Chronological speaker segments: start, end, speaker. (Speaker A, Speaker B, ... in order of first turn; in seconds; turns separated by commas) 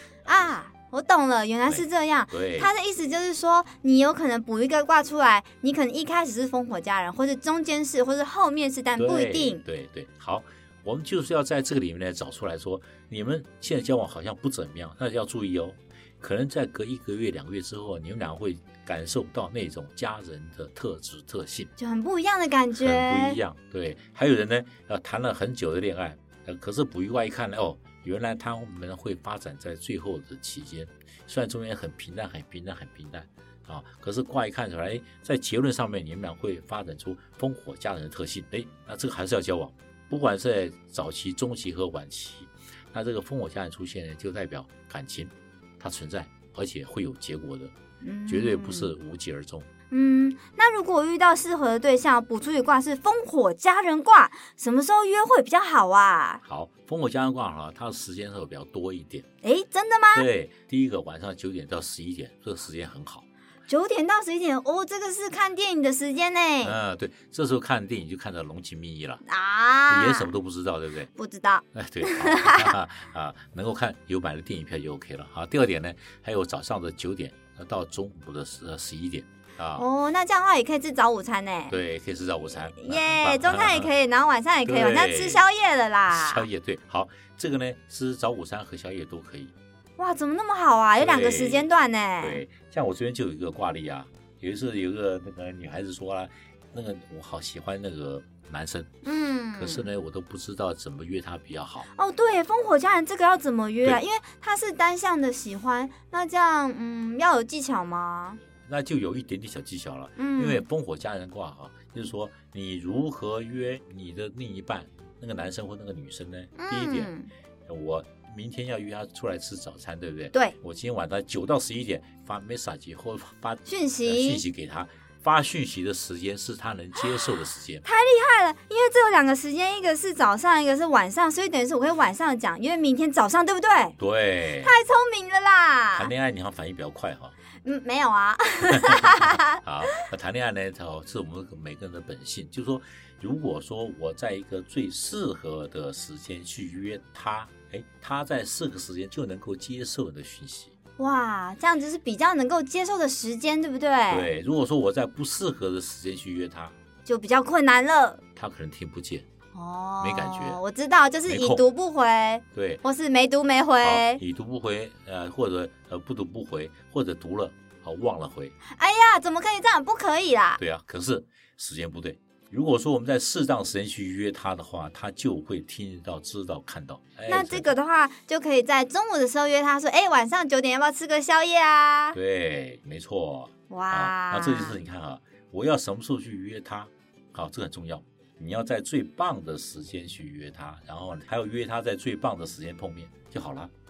Speaker A: 0.2-9.6, Speaker B: 1.7-2.7, Speaker B: 9.0-21.7, Speaker A: 21.8-23.4, Speaker B: 22.8-47.7, Speaker A: 48.0-48.9, Speaker B: 48.3-49.7, Speaker A: 49.9-56.4, Speaker B: 56.4-59.3, Speaker A: 59.4-60.3, Speaker B: 60.1-63.3, Speaker A: 63.7-66.8, Speaker B: 66.6-69.2, Speaker A: 69.3-70.3, Speaker B: 69.9-71.1, Speaker A: 71.2-72.8, Speaker B: 71.7-79.9, Speaker A: 79.8-81.8, Speaker B: 81.7-83.9, Speaker A: 82.8-86.5, Speaker B: 84.7-85.4, Speaker B: 86.1-89.5, Speaker A: 90.0-92.4, Speaker B: 91.0-91.7, Speaker B: 92.2-98.9, Speaker A: 99.0-99.9, Speaker B: 99.5-101.9, Speaker A: 101.9-108.4, Speaker B: 108.7-117.1, Speaker A: 110.2-110.7, Speaker A: 116.6-117.3, Speaker B: 117.7-127.8, Speaker A: 123.7-124.4, Speaker A: 127.8-134.0, Speaker B: 134.0-134.8, Speaker A: 134.6-136.1, Speaker B: 135.9-137.3, Speaker A: 137.6-140.1, Speaker B: 138.7-150.7, Speaker A: 151.0-154.3, Speaker B: 154.1-156.8, Speaker A: 157.1-158.2, Speaker B: 158.4-159.2, Speaker A: 159.5-164.2, Speaker B: 160.0-160.6, Speaker B: 161.2-161.6, Speaker B: 162.5-162.8, Speaker B: 163.8-168.6, Speaker A: 168.7-170.6, Speaker B: 170.6-177.7, Speaker A: 177.3-182.2, Speaker B: 182.1-193.7, Speaker A: 183.7-184.8